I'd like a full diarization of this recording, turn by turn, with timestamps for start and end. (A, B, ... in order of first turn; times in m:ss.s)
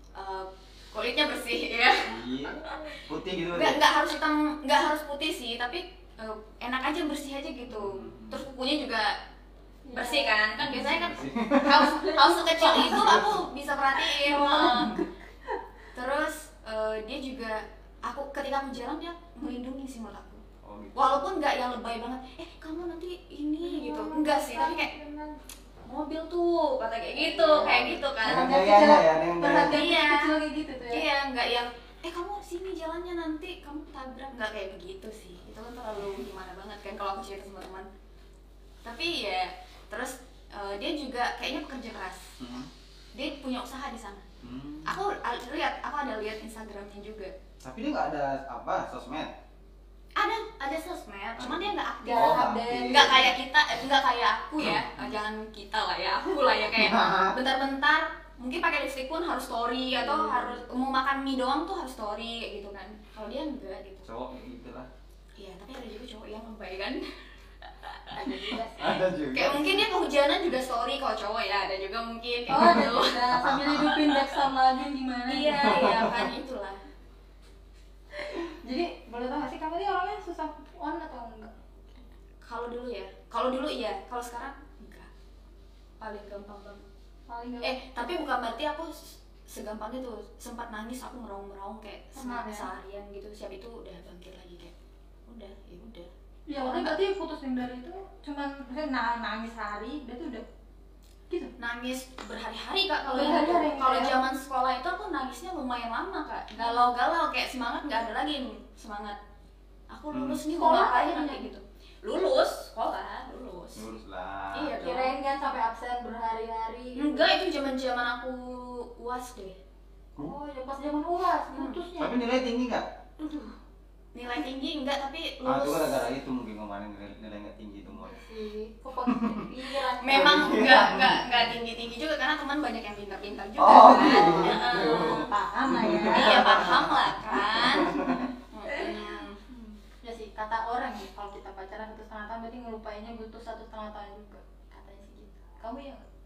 0:00.1-0:03.0 A
0:02.0-0:03.8 B
0:03.5-0:09.1 A
0:07.7-0:08.4 B
0:09.8-0:10.4 C
0:09.9-0:15.0 A
0:10.6-0:11.9 B
0:11.6-0:15.6 C
0:12.8-0:13.4 B
0:15.9-0:20.4 A
0:20.6-0:21.1 B
0:20.9-0:24.9 A
0:23.6-0:25.4 C
0:25.8-0:28.5 A
0:27.1-0:31.0 C
0:27.5-0:29.9 B
0:29.5-0:30.3 A
0:30.9-0:37.9 A
0:38.8-0:42.4 A
0:42.4-0:42.7 B
0:43.1-0:44.2 A
0:44.4-0:45.0 B
0:44.8-0:47.3 A
0:47.6-0:49.3 B
0:50.2-1:04.0 A
0:51.4-0:53.4 B
0:52.0-0:53.1 C
0:54.6-0:55.2 B
0:56.7-0:57.3 B
0:59.9-1:00.6 B
1:04.0-1:04.9 B
1:05.4-1:08.5 A
1:08.1-1:09.0 C
1:08.8-1:09.9 B
1:09.3-1:14.4 A
1:12.5-1:16.0 C
1:15.3-1:16.8 A
1:15.7-1:16.3 B
1:18.1-1:21.6 C
1:22.4-1:25.1 A
1:26.0-1:26.8 A
1:27.3-1:28.3 C
1:27.6-1:34.7 A
1:32.1-1:32.7 C
1:35.2-1:37.0 A
1:36.5-1:40.4 C
1:41.6-1:49.2 A
1:43.1-1:44.2 C
1:46.6-1:46.9 C
1:49.9-1:53.9 A
1:50.1-1:50.4 B
1:50.5-1:51.5 C
1:53.7-1:54.8 B
1:54.5-1:55.1 A
1:54.8-1:57.3 C
1:57.0-1:59.6 A
2:00.2-2:02.2 C
2:01.5-2:01.8 A
2:02.0-2:02.9 B
2:03.2-2:03.5 A
2:04.1-2:06.1 A
2:05.4-2:08.2 B
2:07.9-2:11.0 C
2:09.1-2:09.5 B
2:10.0-2:15.3 A
2:10.1-2:11.2 B
2:13.6-2:18.3 B
2:14.2-2:16.8 C
2:16.0-2:18.0 A
2:17.3-2:26.0 C
2:18.5-2:19.4 A